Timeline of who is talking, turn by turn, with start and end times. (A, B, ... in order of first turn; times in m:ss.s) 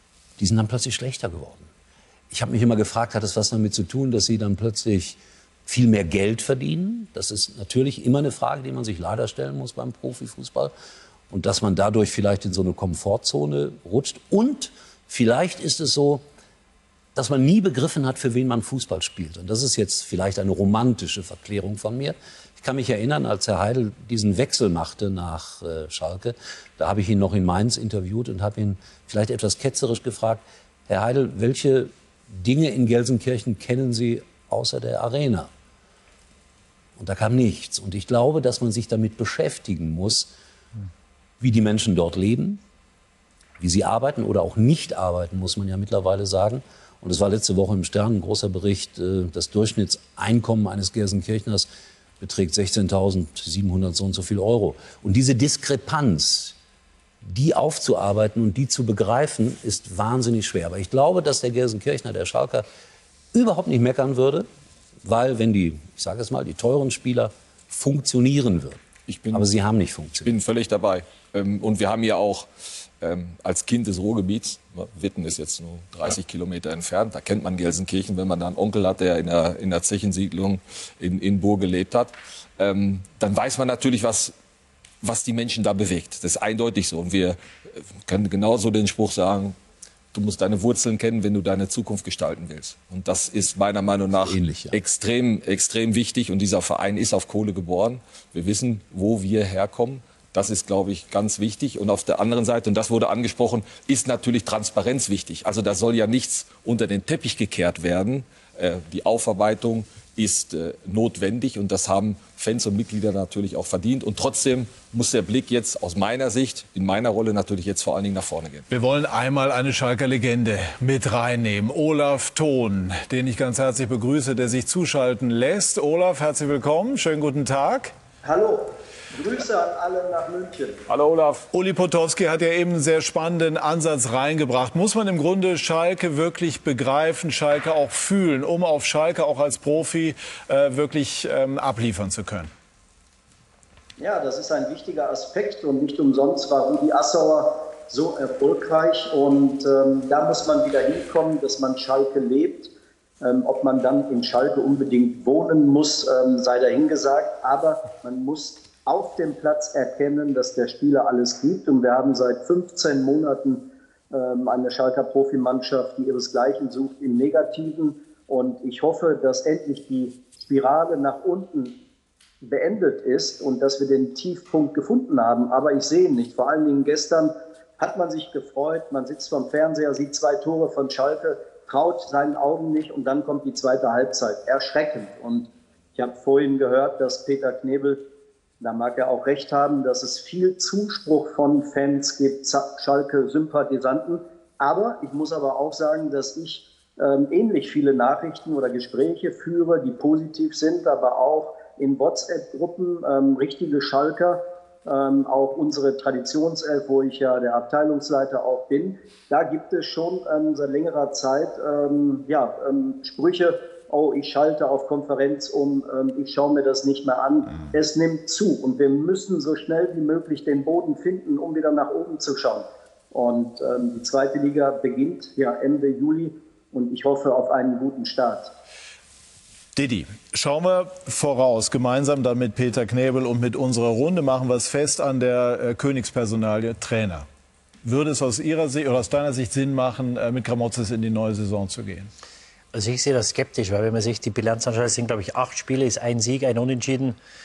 0:00.4-0:01.7 A
0:02.3-0:10.7 A
0:11.3-0:16.2 A
0:17.1-0:35.5 A
0:37.0-0:40.3 A
0:41.4-0:42.6 A
0:43.6-0:51.7 A
0:52.2-0:56.6 A
0:57.2-1:02.6 A
1:03.3-1:04.5 A
1:05.0-1:10.3 A
1:09.1-1:09.5 B
1:10.2-1:12.5 B
1:13.0-1:24.3 B
1:25.0-1:27.4 B
1:28.0-1:29.6 B
1:30.1-1:58.7 B
1:34.2-1:34.8 A
1:58.7-2:07.9 C
2:08.2-2:10.8 D
2:10.9-2:11.5 B
2:11.5-2:22.5 C
2:24.0-2:51.8 D
2:52.4-3:08.0 D
3:08.6-3:48.5 D
3:49.7-3:57.3 C
3:57.8-4:02.1 C
4:02.7-4:07.2 E